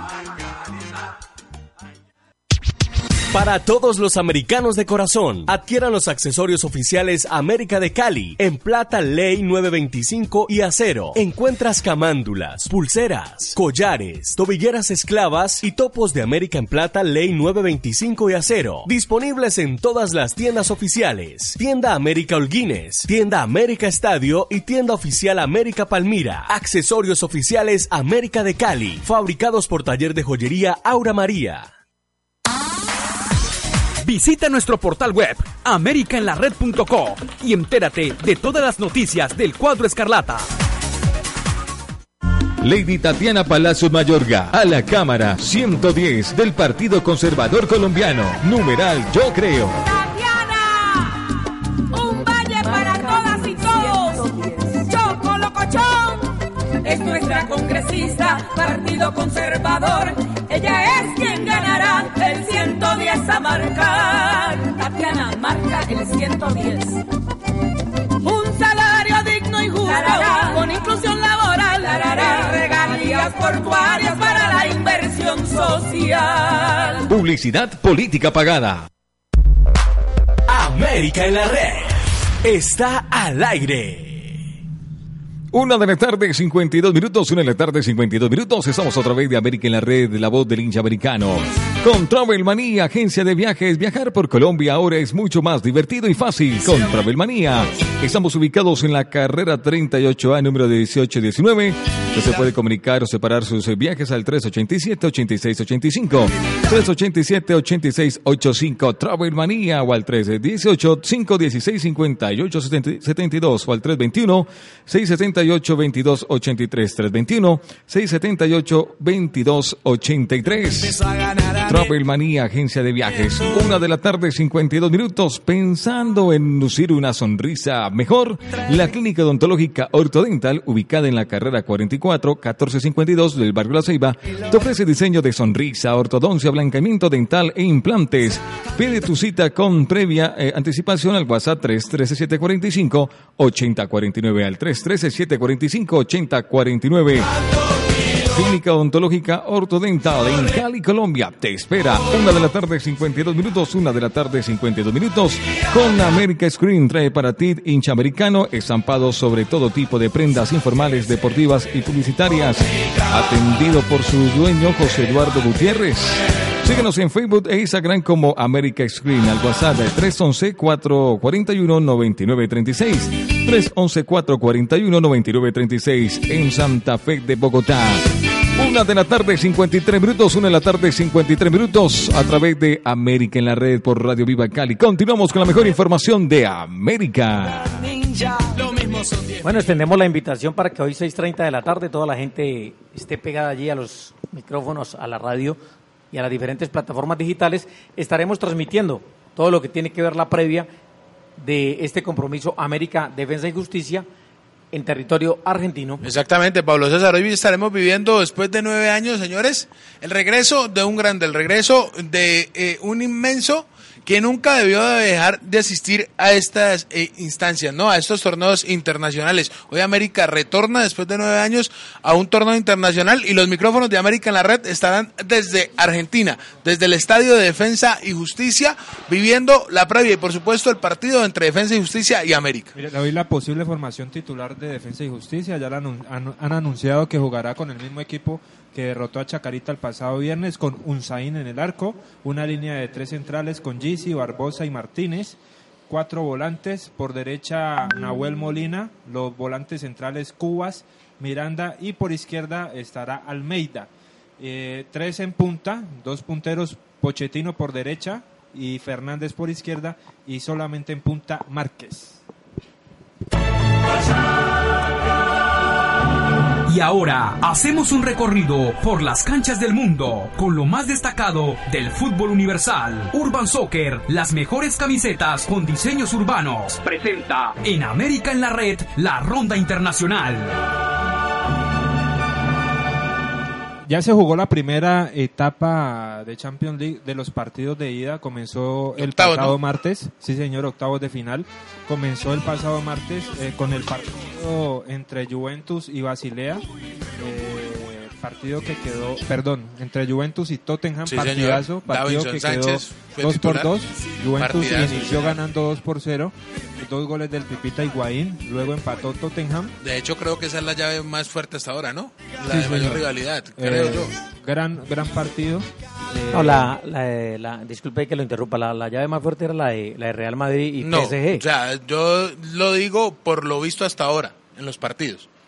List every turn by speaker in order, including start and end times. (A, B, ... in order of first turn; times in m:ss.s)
0:03.3-0:31.7 A
0:34.0-0:40.5 B
0:42.6-0:49.8 C
0:49.9-0:51.1 D
0:51.9-0:56.3 D
0:56.8-1:07.0 D
1:08.2-1:17.0 D
1:17.1-1:18.9 C
1:20.5-1:24.4 A
1:25.5-2:27.3 C
2:28.2-3:07.8 C
3:09.4-3:15.6 E
3:16.1-3:20.7 E
3:21.4-3:24.1 E
3:24.7-3:26.0 E
3:26.0-3:52.7 F
3:52.8-4:05.4 G
4:05.9-4:22.2 G
4:26.6-4:40.6 B
4:43.9-4:56.6 G
4:49.0-4:49.6 F
4:57.2-5:09.7 G
5:01.1-5:03.7 F
5:04.4-5:05.4 F
5:09.8-5:14.1 F
5:12.5-5:13.0 G
5:13.6-5:16.7 G
5:16.3-5:21.4 E
5:20.8-5:25.3 F